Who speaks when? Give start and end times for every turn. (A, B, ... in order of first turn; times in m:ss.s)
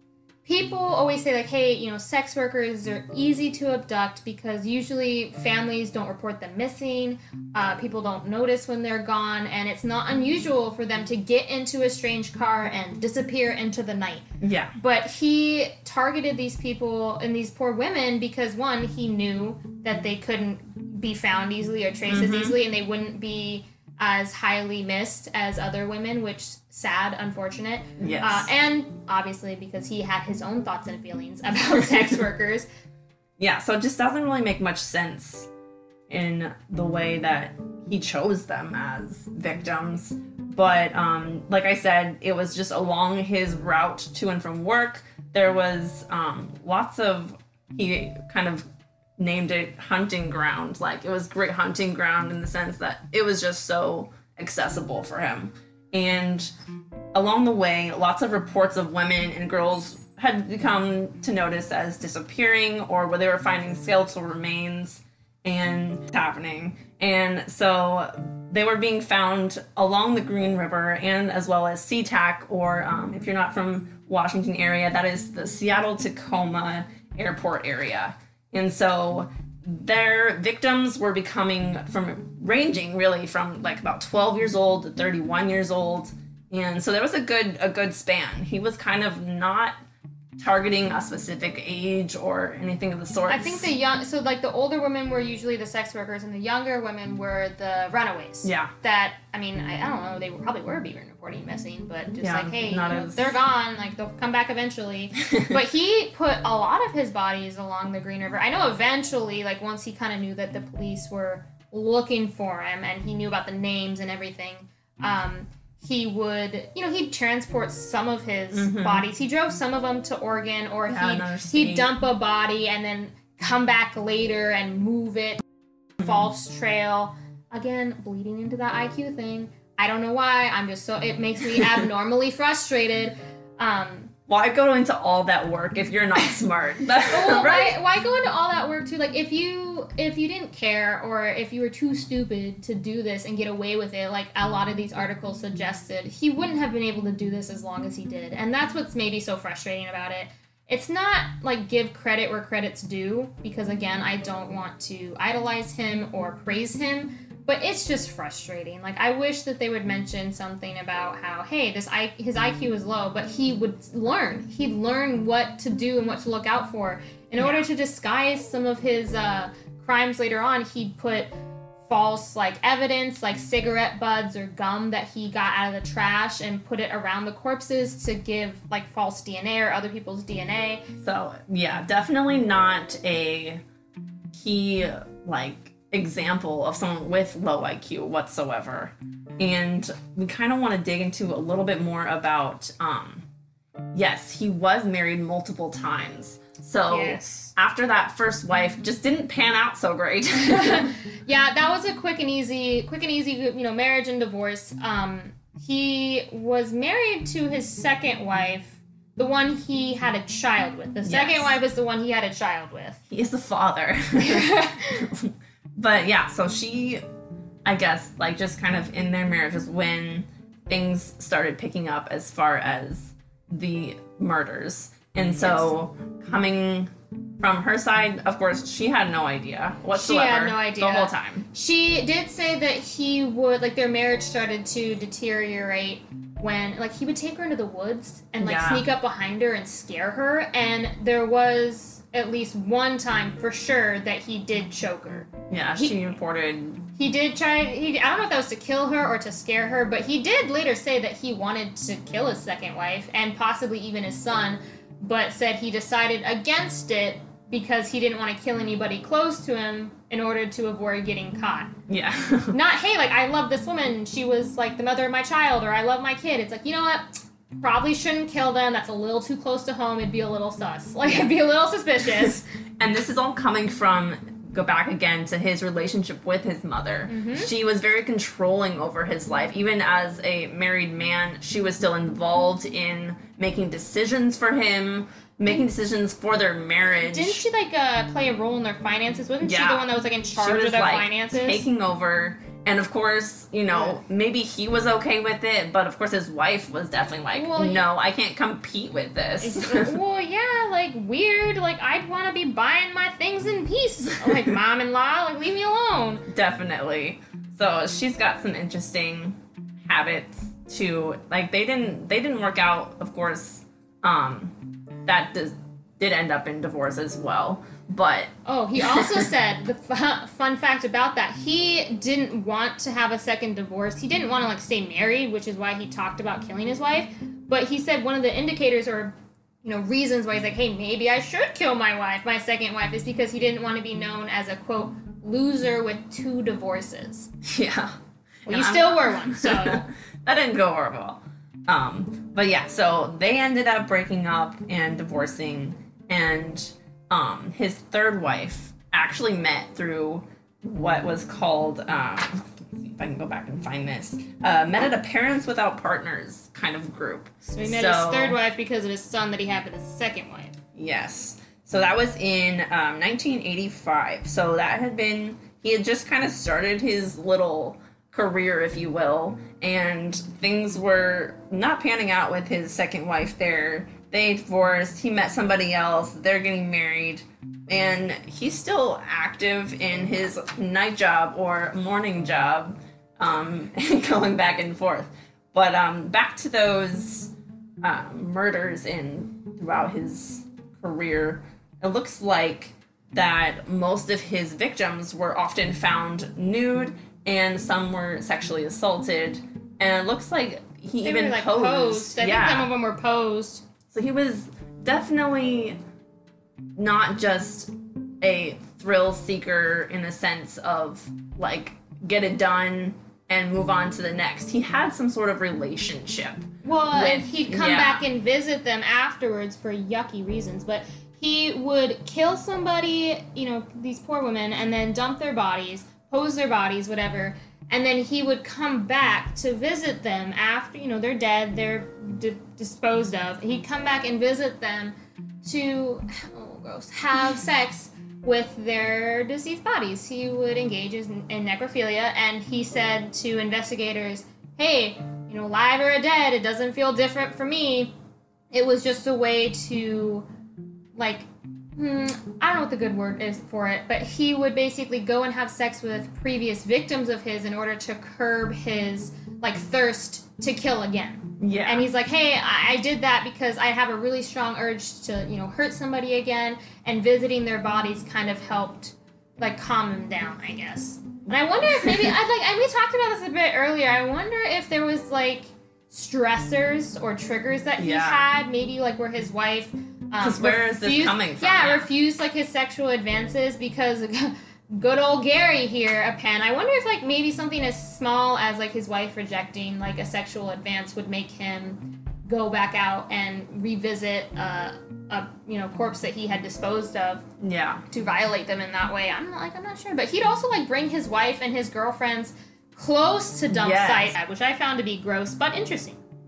0:00.4-0:14.2 A
0:14.4-0:14.7 B
0:14.8-0:32.7 A
0:22.1-0:22.6 B
0:28.0-0:28.5 B
0:33.4-0:35.5 B
0:36.1-0:48.6 B
0:49.2-0:56.5 B
0:57.1-1:29.8 B
1:30.4-1:33.7 B
1:33.3-2:05.4 A
1:38.4-1:38.7 B
1:42.2-1:43.4 B
1:45.3-1:45.6 B
1:58.5-1:59.1 B
2:00.9-2:01.9 B
2:06.0-2:14.1 A
2:14.3-2:17.8 B
2:17.0-2:51.3 A
2:47.4-2:47.7 B
2:51.8-3:00.8 A
3:01.0-3:03.6 B
3:04.3-3:13.3 B
3:13.9-3:20.9 B
3:16.9-3:17.5 A
3:20.4-3:33.0 A
3:31.0-3:31.6 B
3:33.1-3:37.0 B
3:34.2-3:35.1 A
3:37.6-3:51.5 B
3:45.4-3:45.7 A
3:49.9-4:06.0 A
3:58.4-3:58.8 B
4:05.5-4:06.9 B
4:07.0-4:21.7 A
4:21.9-4:22.6 B
4:22.5-4:32.4 A
4:31.1-4:31.3 B
4:32.8-4:47.4 B
4:37.1-4:37.5 A
4:47.0-4:51.6 A
4:49.4-5:00.0 B
4:53.7-4:54.0 A
4:57.3-4:57.8 A
4:59.4-5:06.3 A
5:06.3-5:19.2 B
5:18.4-5:29.1 A
5:29.6-5:37.3 A
5:37.4-5:58.4 B
5:38.5-5:39.9 A
5:57.4-6:00.6 A
6:00.8-6:42.7 B
6:41.0-6:43.6 A
6:43.9-6:45.8 B
6:46.8-6:58.0 B
6:56.6-7:27.9 A
7:28.5-7:30.3 A
7:31.0-7:31.3 A
7:31.8-8:17.2 A
7:41.4-7:41.9 B
7:51.9-7:52.1 B
7:57.8-7:58.3 B
8:00.2-8:01.9 B
8:17.4-8:17.8 B
8:17.9-8:26.0 A
8:23.5-8:24.2 B